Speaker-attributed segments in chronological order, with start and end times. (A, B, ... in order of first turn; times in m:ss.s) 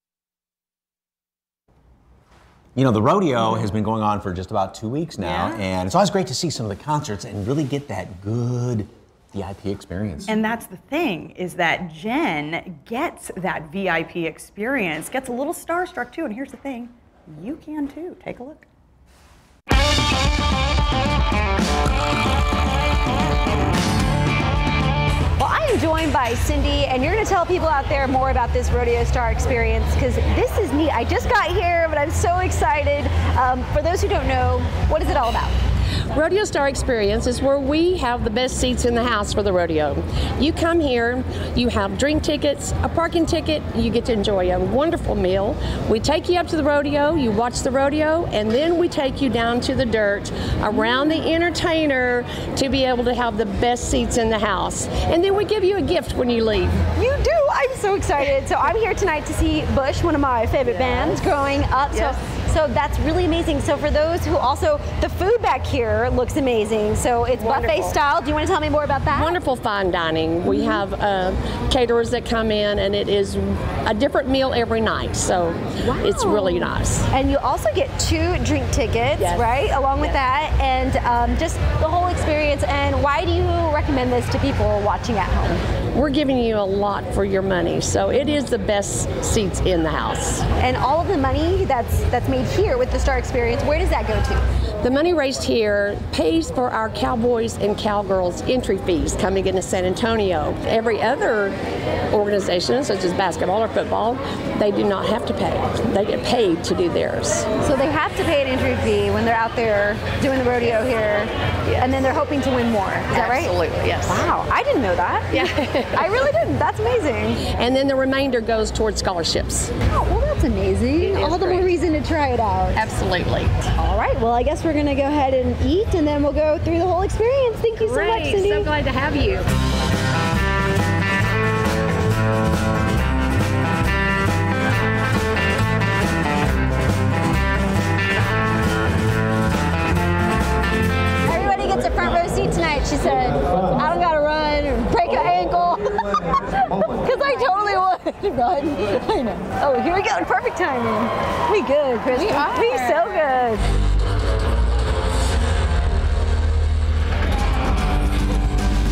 0:02.8-0:10.3 A
0:03.4-0:03.7 B
0:05.2-0:05.6 B
0:10.3-0:18.7 B
0:25.4-0:35.6 C
0:36.1-0:56.8 D
0:56.9-1:09.4 C
1:00.7-1:01.0 D
1:07.4-1:08.0 D
1:09.1-1:17.1 D
1:10.4-1:10.8 C
1:15.8-1:25.6 C
1:19.2-1:20.2 D
1:25.9-1:30.4 D
1:30.6-1:34.4 C
1:34.8-1:41.6 D
1:42.1-1:47.5 D
1:47.6-1:57.4 C
1:51.7-1:52.0 D
1:53.1-1:54.2 D
1:55.3-1:56.2 D
1:57.4-1:59.7 D
1:59.8-2:02.8 C
2:01.0-2:01.8 D
2:02.7-2:03.6 D
2:03.8-2:08.7 C
2:07.8-2:09.5 D
2:21.2-2:33.6 C